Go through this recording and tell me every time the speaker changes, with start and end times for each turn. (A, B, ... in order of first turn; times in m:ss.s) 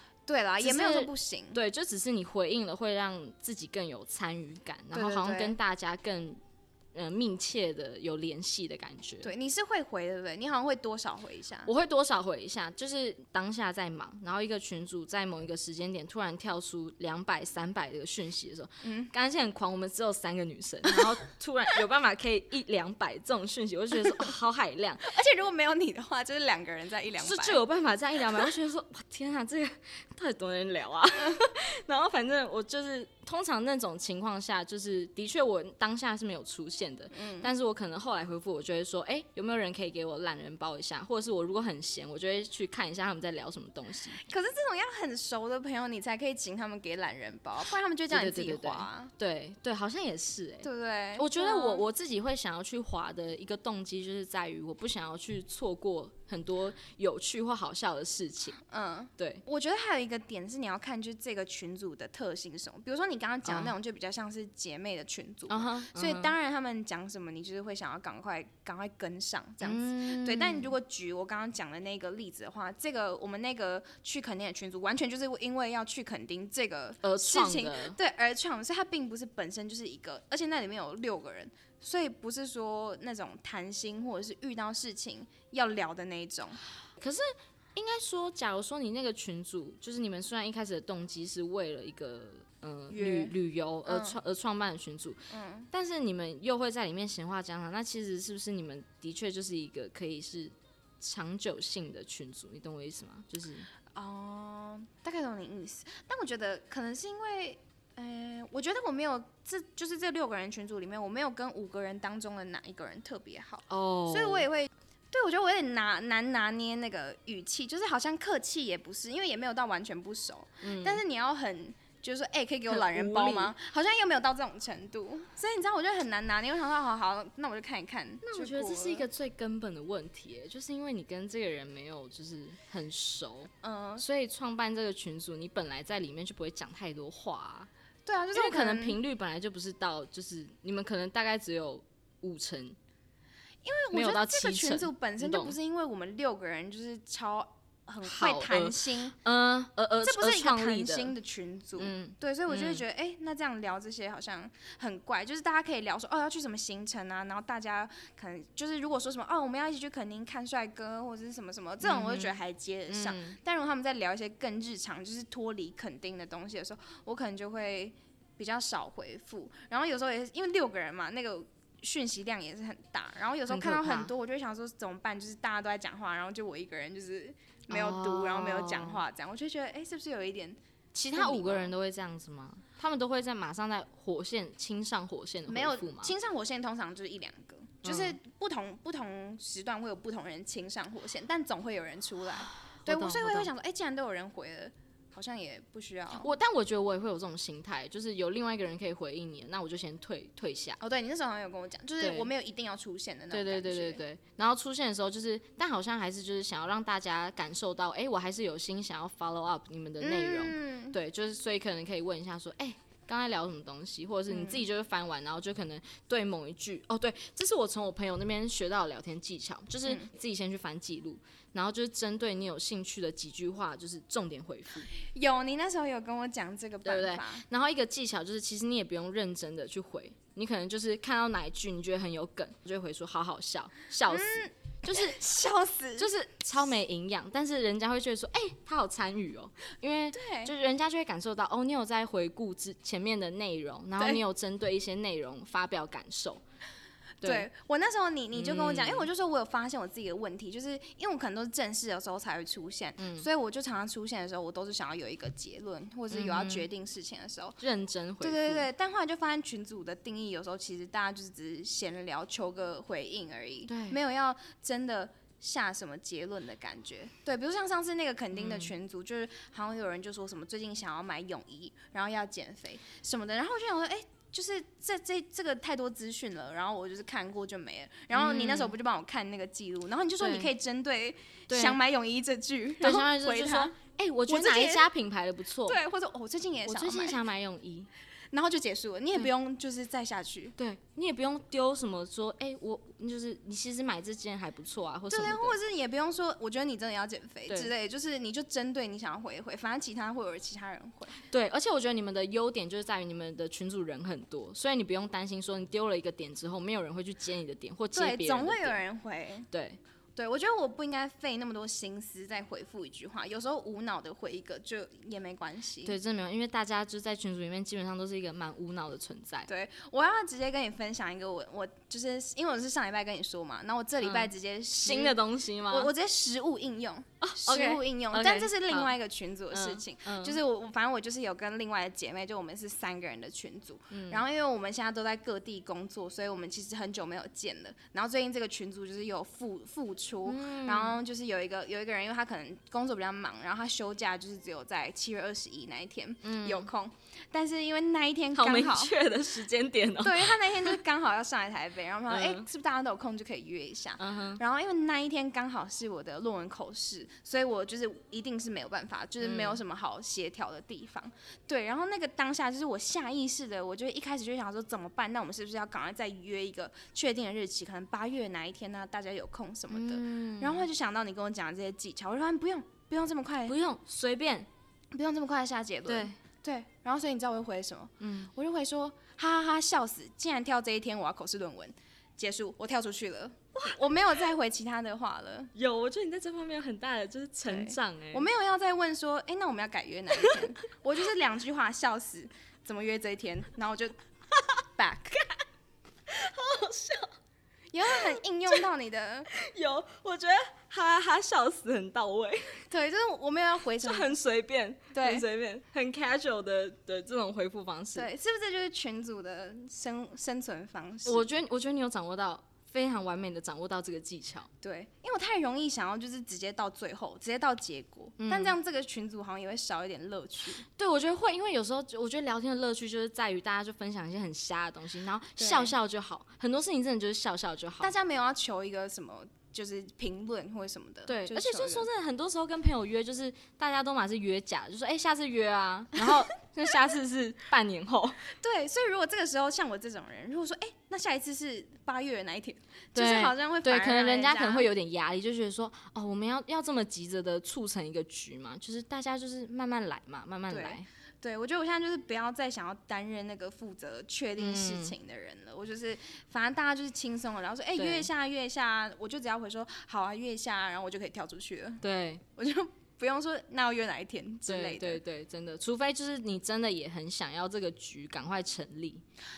0:00.3-0:01.6 A
0:00.6-0:06.4 B
0:04.9-0:05.6 A
0:06.9-0:09.3 B
0:09.2-0:11.7 A
0:11.6-0:25.1 B
0:18.8-0:19.1 A
0:25.0-0:27.6 A
0:27.2-0:44.2 B
0:37.1-0:37.5 A
0:44.1-0:49.1 A
0:48.1-0:58.6 B
0:50.6-0:51.8 A
0:58.6-1:26.6 A
0:59.2-0:59.4 B
1:03.4-1:03.7 B
1:05.5-1:06.3 B
1:09.6-1:10.7 B
1:17.0-1:18.0 B
1:27.0-1:43.7 B
1:32.9-1:33.3 A
1:33.9-1:34.2 A
1:35.3-1:35.7 A
1:43.9-2:09.1 A
1:53.7-1:54.5 B
2:00.6-2:01.0 B
2:02.7-2:03.5 B
2:08.2-2:17.7 B
2:13.6-2:14.0 A
2:18.1-2:19.0 A
2:18.3-2:22.8 B
2:23.6-2:29.2 A
2:23.9-2:25.6 B
2:28.0-2:31.1 B
2:30.0-3:00.6 A
2:31.8-2:32.8 B
2:41.8-2:42.4 B
2:42.9-2:43.4 B
2:53.5-2:54.1 B
2:57.7-2:59.0 B
3:00.9-3:06.1 B
3:01.1-3:01.7 A
3:05.5-3:16.3 A
3:07.8-3:08.2 B
3:12.5-3:13.5 B
3:16.1-3:20.8 B
3:20.8-3:24.0 A
3:22.0-3:22.3 B
3:23.3-3:44.9 B
3:30.0-3:31.0 A
3:34.3-3:34.6 A
3:45.0-3:47.4 A
3:46.8-3:55.2 B
3:54.1-3:56.1 A
3:56.0-4:06.4 B
4:00.1-4:00.5 A
4:07.2-4:07.5 B
4:07.2-4:17.6 A
4:08.3-4:09.1 B
4:13.0-4:13.3 B
4:16.1-4:16.7 B
4:17.6-4:18.7 B
4:18.2-4:43.8 A
4:23.7-4:24.0 B
4:28.3-4:28.7 B
4:38.1-4:38.8 B
4:40.2-4:40.5 B
4:41.5-4:41.8 B
4:42.8-4:45.8 B
4:44.3-4:44.9 A
4:45.7-4:47.2 A
4:46.7-4:47.9 B
4:48.3-4:50.6 A
4:50.6-4:55.6 B
4:55.1-5:01.2 A
5:01.3-5:08.8 B
5:07.9-5:09.5 A
5:09.5-5:09.8 B
5:10.2-5:16.0 A
5:15.8-5:19.5 B
5:19.5-5:48.9 A
5:24.0-5:25.9 B
5:27.2-5:28.9 B
5:29.5-5:30.4 B
5:33.9-5:34.2 B
5:40.3-5:41.0 B
5:46.2-5:46.7 B
5:48.4-5:50.8 B
5:50.0-6:13.6 A
5:52.1-5:52.5 B
5:54.0-5:54.4 B
5:59.2-5:59.6 B
6:09.7-6:10.7 B
6:13.5-6:14.5 B
6:14.9-6:25.5 A
6:15.9-6:16.2 B
6:18.0-6:18.3 B
6:25.6-6:28.3 B
6:27.5-6:34.0 A
6:34.8-6:35.2 A
6:36.1-6:37.1 B
6:37.7-6:39.3 A
6:37.9-6:38.6 B
6:39.3-6:42.6 B
6:42.7-6:44.1 A
6:43.8-6:48.1 B
6:44.9-6:45.2 A
6:47.9-6:51.3 A
6:51.0-6:54.5 B
6:54.6-7:00.6 A
6:58.2-6:58.6 B
7:00.7-7:07.9 B
7:05.4-7:05.8 A
7:07.8-7:11.9 A
7:11.1-7:18.2 B
7:18.3-7:24.7 A
7:23.0-7:30.9 B
7:30.5-7:41.8 A
7:34.4-7:34.9 B
7:37.8-7:38.1 B
7:41.8-7:42.2 B
7:42.4-7:45.0 A
7:44.5-7:49.0 B